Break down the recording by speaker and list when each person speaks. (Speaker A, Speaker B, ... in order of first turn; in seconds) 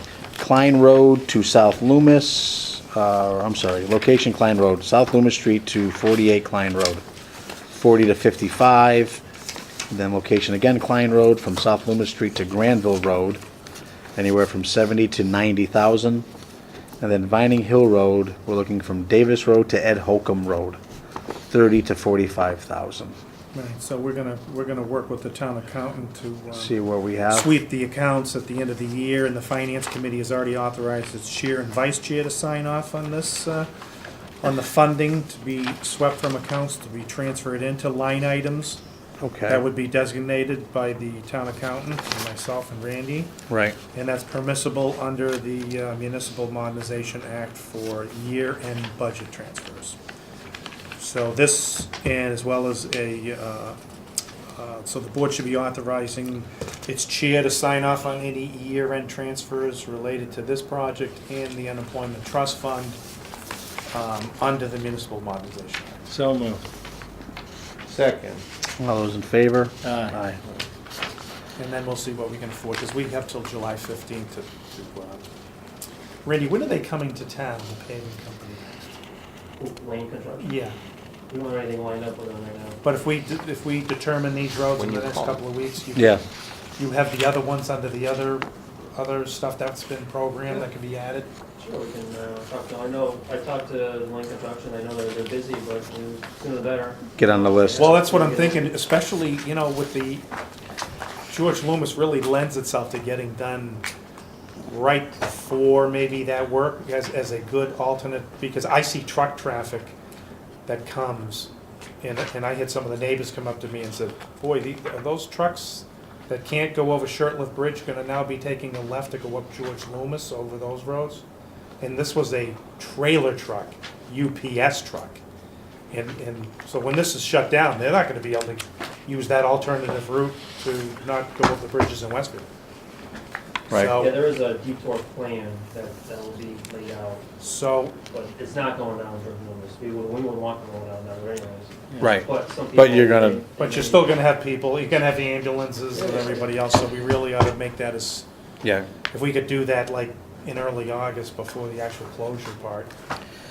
Speaker A: 0.4-7.0, 7.7-9.2, 9.9-13.4, 14.2-16.2, 17.0-20.8, 21.5-23.1, 26.5-27.5, 39.2-39.6, 43.5-43.8, 68.8-70.4, 85.9-86.2, 97.2-98.0, 133.7-134.0, 142.0-143.4, 148.6-148.9
Speaker B: 23.5-26.8, 27.3-33.7, 34.4-38.8, 39.5-43.3, 43.9-50.0, 51.0-53.8, 54.5-63.0, 63.9-66.1, 71.6-75.3, 76.2-79.0, 80.4-80.8, 82.8-86.2, 86.8-91.3, 97.8-100.2, 101.3-103.8, 104.6-109.9, 110.7-111.5, 112.0-121.2, 121.8-125.2, 125.9-132.5, 133.7-134.2, 137.4-137.9, 143.6-148.2, 149.1-152.9
Speaker C: 67.8-68.4, 69.9-70.6, 84.8-85.4
Speaker D: 79.6-80.6, 81.3-82.8, 91.6-98.7, 133.8-137.2, 138.1-144.2, 145.9-146.4